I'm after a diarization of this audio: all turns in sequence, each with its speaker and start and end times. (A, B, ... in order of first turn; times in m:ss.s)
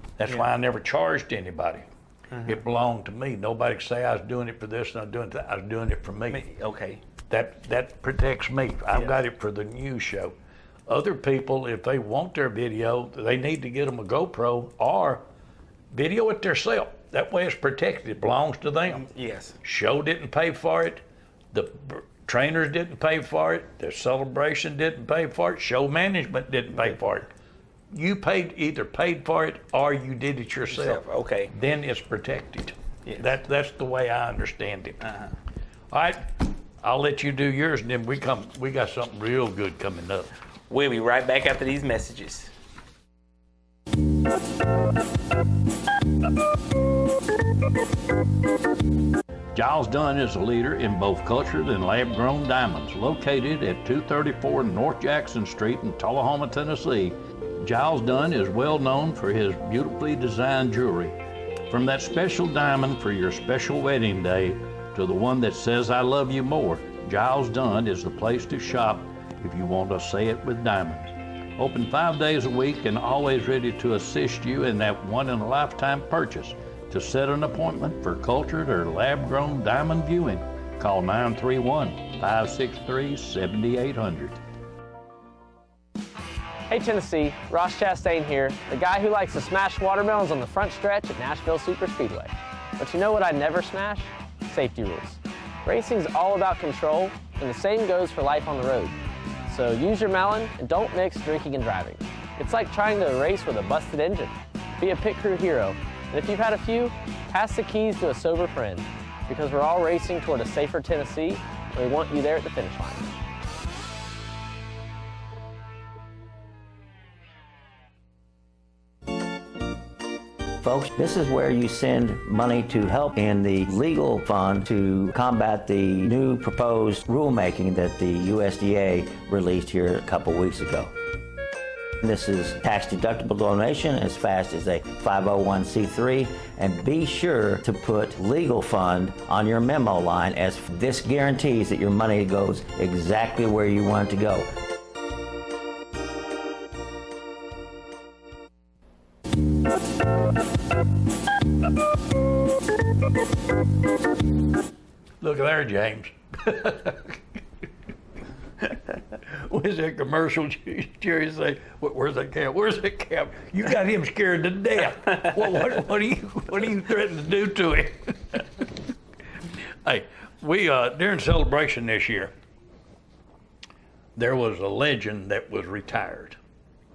0:00.2-0:01.9 A
0:02.3-0:02.6 B
0:02.4-0:06.4 A
0:06.3-0:07.0 B
0:07.3-0:10.3 A
0:10.9-0:15.2 A
0:15.9-0:19.1 A
0:18.9-0:19.6 B
0:19.6-0:27.3 A
0:27.9-0:35.0 A
0:30.7-0:31.5 B
0:33.0-0:33.3 B
0:35.0-0:35.3 B
0:35.9-0:36.2 A
0:36.8-0:40.3 A
0:40.7-0:42.5 B
0:49.5-1:01.1 A
1:01.7-1:24.4 A
1:26.7-1:39.0 C
1:39.5-1:53.1 C
2:00.6-2:10.9 D
2:12.0-2:24.5 D
2:35.2-2:37.2 A
2:39.3-2:48.4 A
2:49.8-2:52.3 A
2:54.2-2:56.4 A